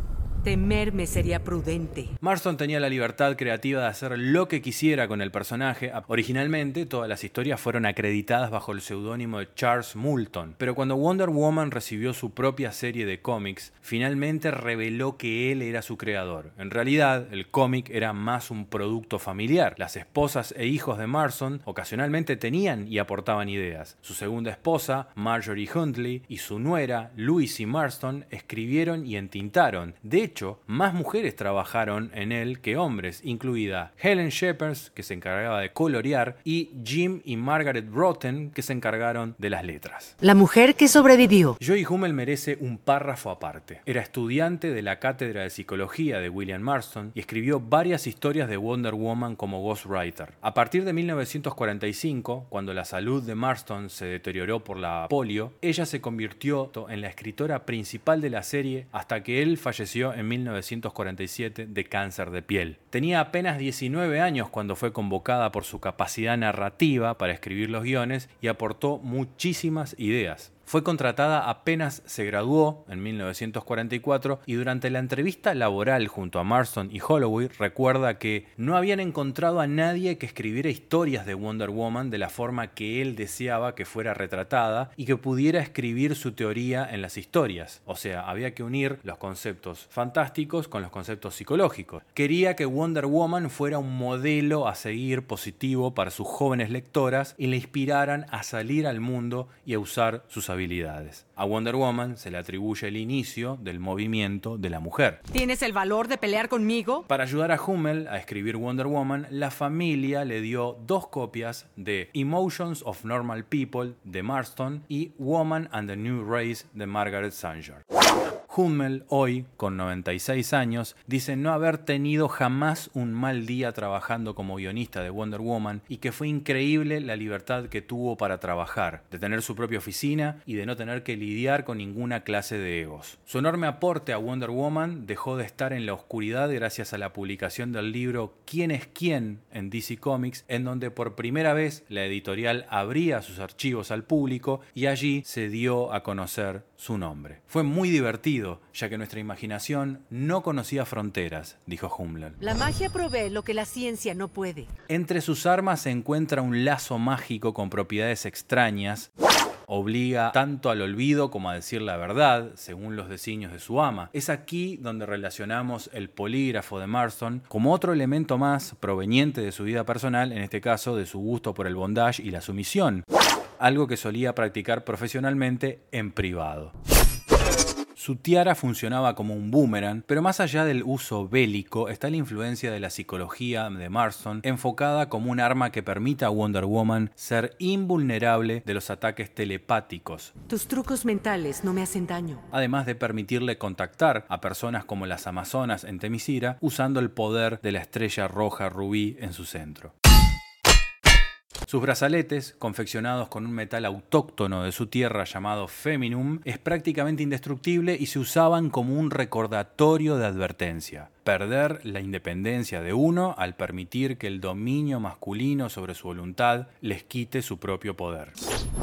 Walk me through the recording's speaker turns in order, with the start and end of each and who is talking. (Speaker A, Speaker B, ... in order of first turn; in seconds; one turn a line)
Speaker A: 0.4-2.2
Speaker B: 2.2-40.1
Speaker A: 40.2-41.6
Speaker B: 41.6-105.2
Speaker A: 105.3-107.1
Speaker B: 107.1-117.8
Speaker B: 118.5-152.4
Speaker A: 152.4-154.7
Speaker B: 154.9-159.1
Speaker B: 159.7-173.1
Speaker B: 173.6-176.7
Speaker B: 178.0-190.3
Speaker A: 190.5-192.4
Speaker B: 192.5-199.9
Speaker B: 201.7-218.4